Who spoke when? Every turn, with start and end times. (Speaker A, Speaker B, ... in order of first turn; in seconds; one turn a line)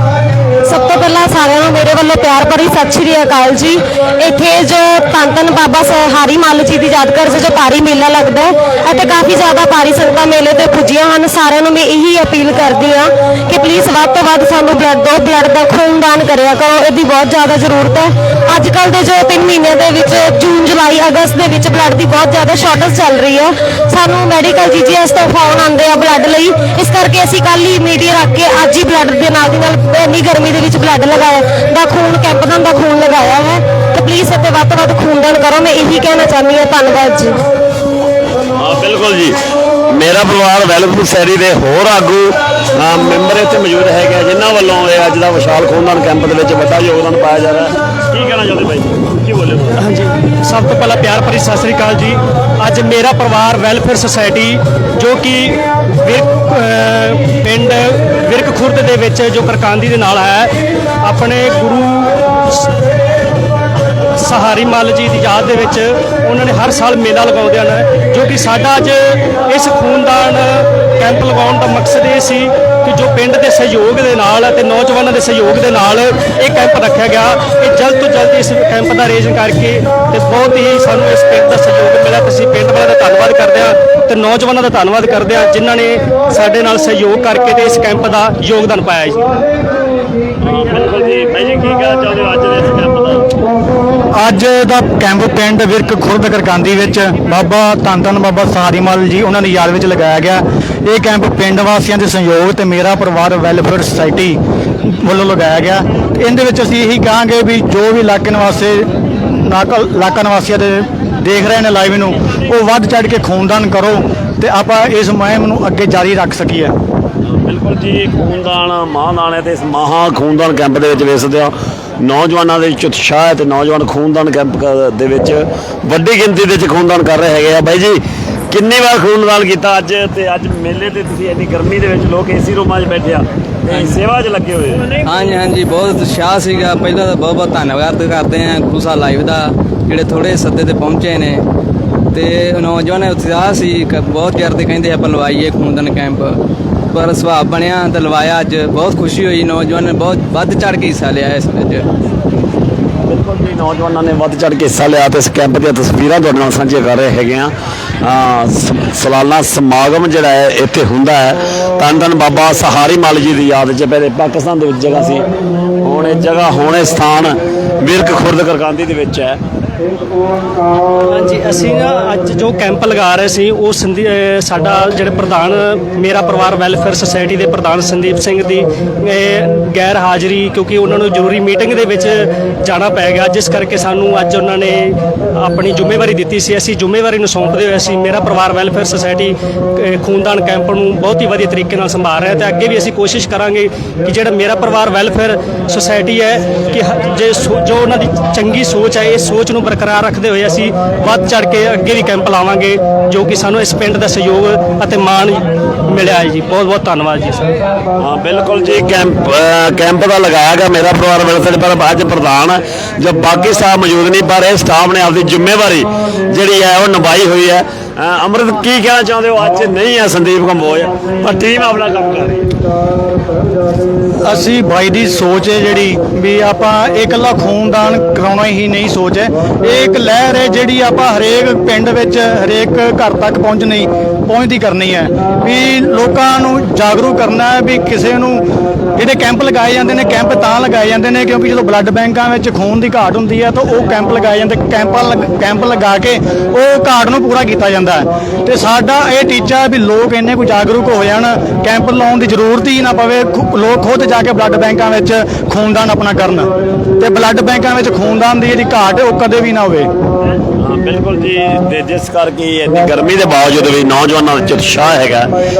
Speaker A: 0.6-37.4
Speaker B: 38.6-39.4
Speaker B: 39.9-49.8
Speaker C: 49.8-60.5
Speaker C: 61.0-62.7
Speaker C: 64.2-89.3
Speaker B: 90.4-93.2
Speaker D: 94.2-116.7
Speaker B: 117.4-135.0
Speaker E: 133.7-134.0
Speaker E: 135.0-141.4
Speaker E: 142.1-146.4
Speaker E: 146.9-151.9
Speaker B: 153.1-165.2
Speaker B: 165.8-169.4
Speaker C: 171.1-207.4
Speaker B: 208.0-222.4
Speaker D: 224.2-238.4
Speaker D: 238.9-259.9
Speaker B: 260.6-265.3